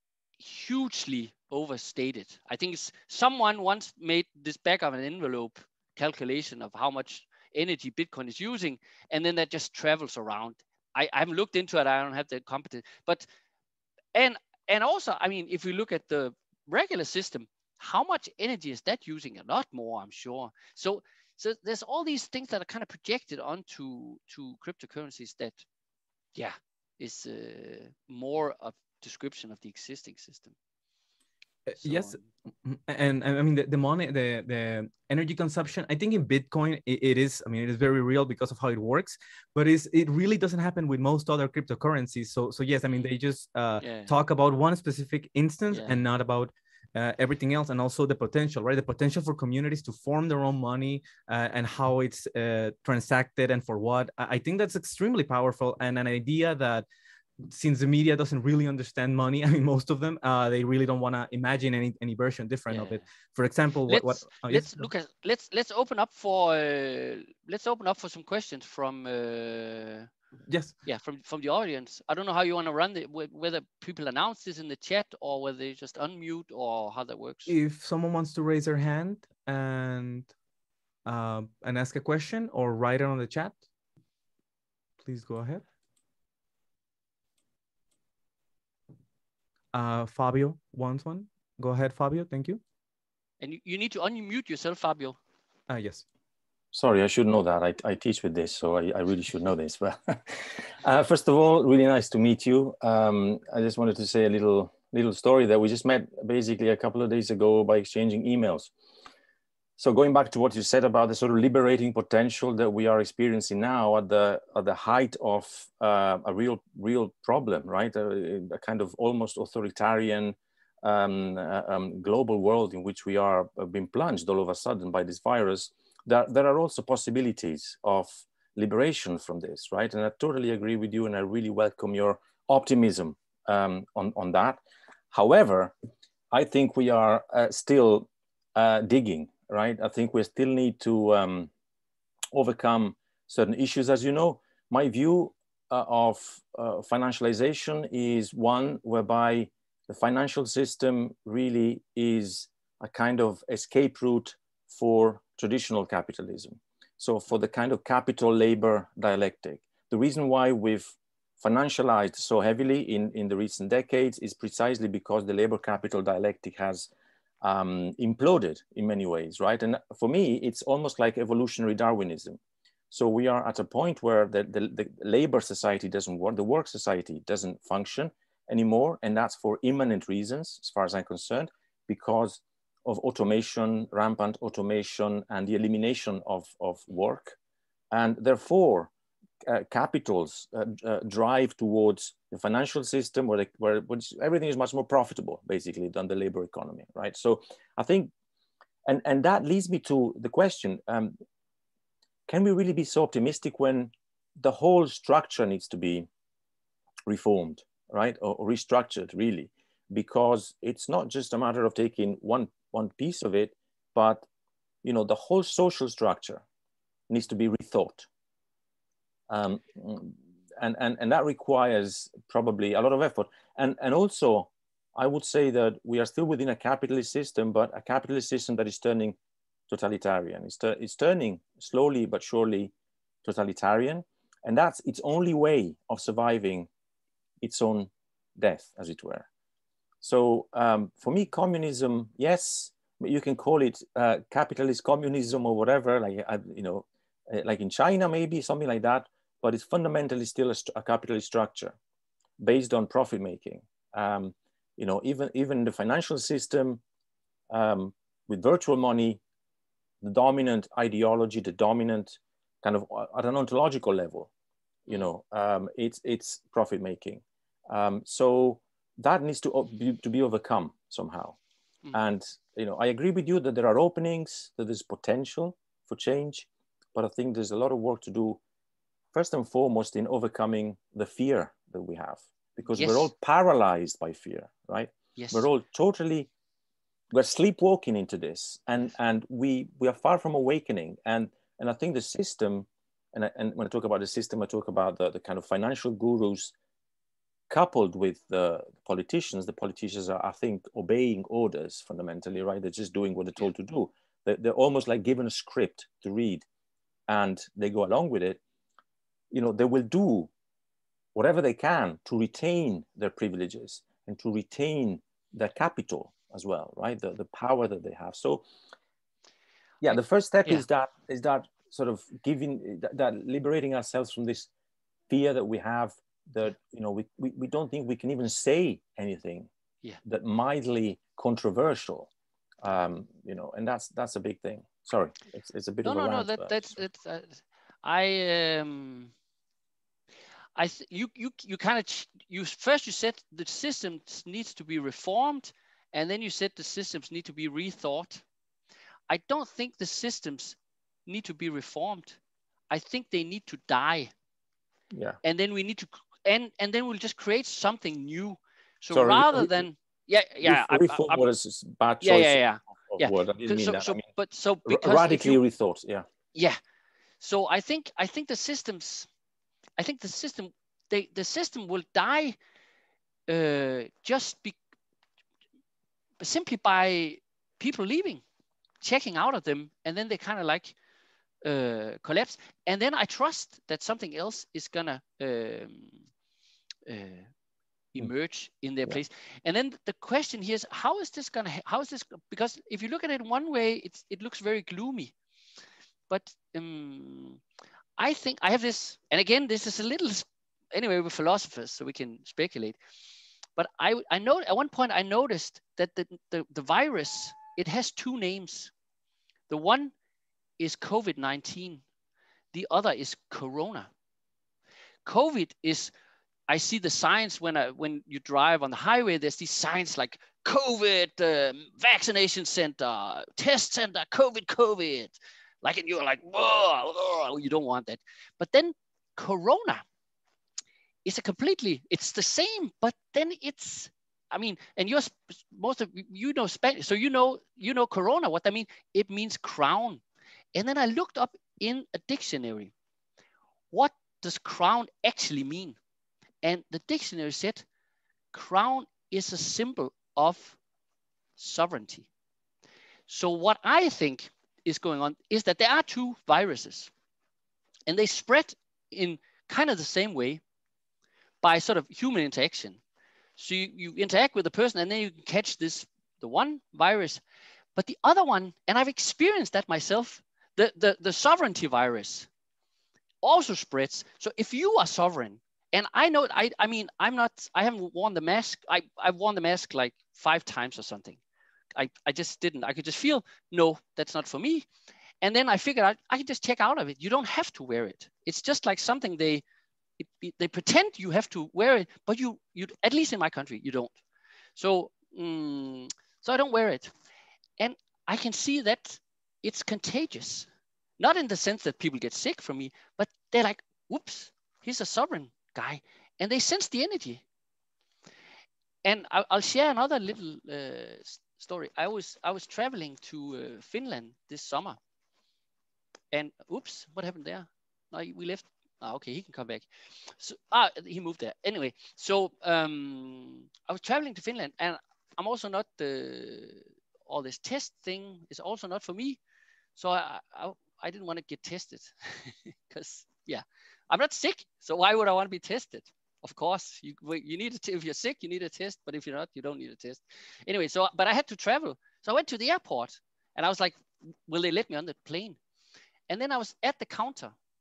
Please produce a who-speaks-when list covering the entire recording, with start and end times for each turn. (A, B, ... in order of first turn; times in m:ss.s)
0:00.4-0:13.3 A
0:14.2-0:25.6 A
0:26.4-0:30.6 A
0:31.7-0:56.9 B
0:31.8-0:32.2 A
0:43.8-0:44.1 A
0:45.7-0:46.0 A
0:57.5-1:04.9 B
1:02.7-1:03.0 A
1:03.9-1:10.1 A
1:10.5-1:10.8 B
1:10.9-1:17.6 A
1:17.5-1:20.3 B
1:21.0-1:23.6 B
1:25.0-1:25.6 B
1:29.7-1:32.6 B
1:33.4-1:35.2 A
1:35.7-1:36.0 B
1:36.7-1:48.7 C
1:49.8-2:14.6 C
2:15.1-2:15.7 C
2:16.3-2:21.5 C
2:22.3-2:46.9 C
2:47.4-2:52.4 C
2:52.9-3:07.4 C
3:07.9-3:08.9 C
3:09.4-3:18.1 C
3:18.9-3:21.2 C
3:22.3-3:26.1 C
3:27.1-3:34.2 C
3:34.8-3:36.4 C
3:37.1-3:38.1 C
3:39.3-3:49.2 C
3:49.7-3:52.7 C
3:53.2-3:56.7 C
3:57.4-3:59.3 C
4:00.0-4:11.8 C
4:12.4-4:16.8 C
4:17.5-4:19.2 C
4:20.0-4:24.3 C
4:24.9-4:31.4 C
4:31.9-4:38.4 C
4:39.1-4:46.3 C
4:42.7-4:43.1 A
4:45.2-4:45.5 A
4:47.1-4:56.5 C
4:57.5-5:06.4 C
5:07.1-5:08.4 C
5:09.3-5:10.3 C
5:11.2-5:18.4 C
5:19.8-5:24.5 C
5:25.1-5:29.5 C
5:30.0-5:32.1 C
5:32.6-5:36.8 C
5:35.8-5:39.1 A
5:40.6-5:48.2 A
5:49.1-5:52.2 A
5:52.7-5:54.1 A
5:54.9-5:55.2 C
5:55.2-6:01.2 A
5:58.9-5:59.7 C
6:00.4-6:04.0 C
6:02.0-6:05.4 A
6:04.7-6:06.1 C
6:07.2-6:09.1 A
6:09.8-6:12.4 A
6:13.3-6:14.6 A
6:16.2-6:18.2 A
6:18.8-6:20.8 A
6:21.4-6:26.0 A
6:26.9-6:27.3 A
6:27.9-6:35.1 A
6:36.1-6:37.4 A
6:38.0-6:42.8 A
6:43.6-6:48.7 A
6:49.5-6:49.9 A
6:50.6-6:51.8 A
6:52.5-6:53.9 A
6:55.0-6:55.9 A
6:56.5-7:09.8 A
7:11.0-7:20.0 A
7:20.5-7:22.7 A
7:23.7-7:25.8 A
7:26.4-7:27.7 A
7:28.3-7:30.6 A
7:31.4-7:32.1 A
7:33.1-7:36.9 A
7:37.9-7:40.4 A
7:41.4-7:42.8 A
7:43.4-7:47.2 A
7:47.8-7:52.3 A
7:53.2-8:01.2 A
8:01.8-8:04.7 A
8:05.2-8:09.4 A
8:10.0-8:14.0 A
8:14.6-8:16.9 A
8:17.6-8:20.5 A
8:21.0-8:27.2 A
8:28.8-8:34.8 A
8:36.1-8:49.2 A
8:49.8-9:05.4 A
9:06.1-9:07.3 A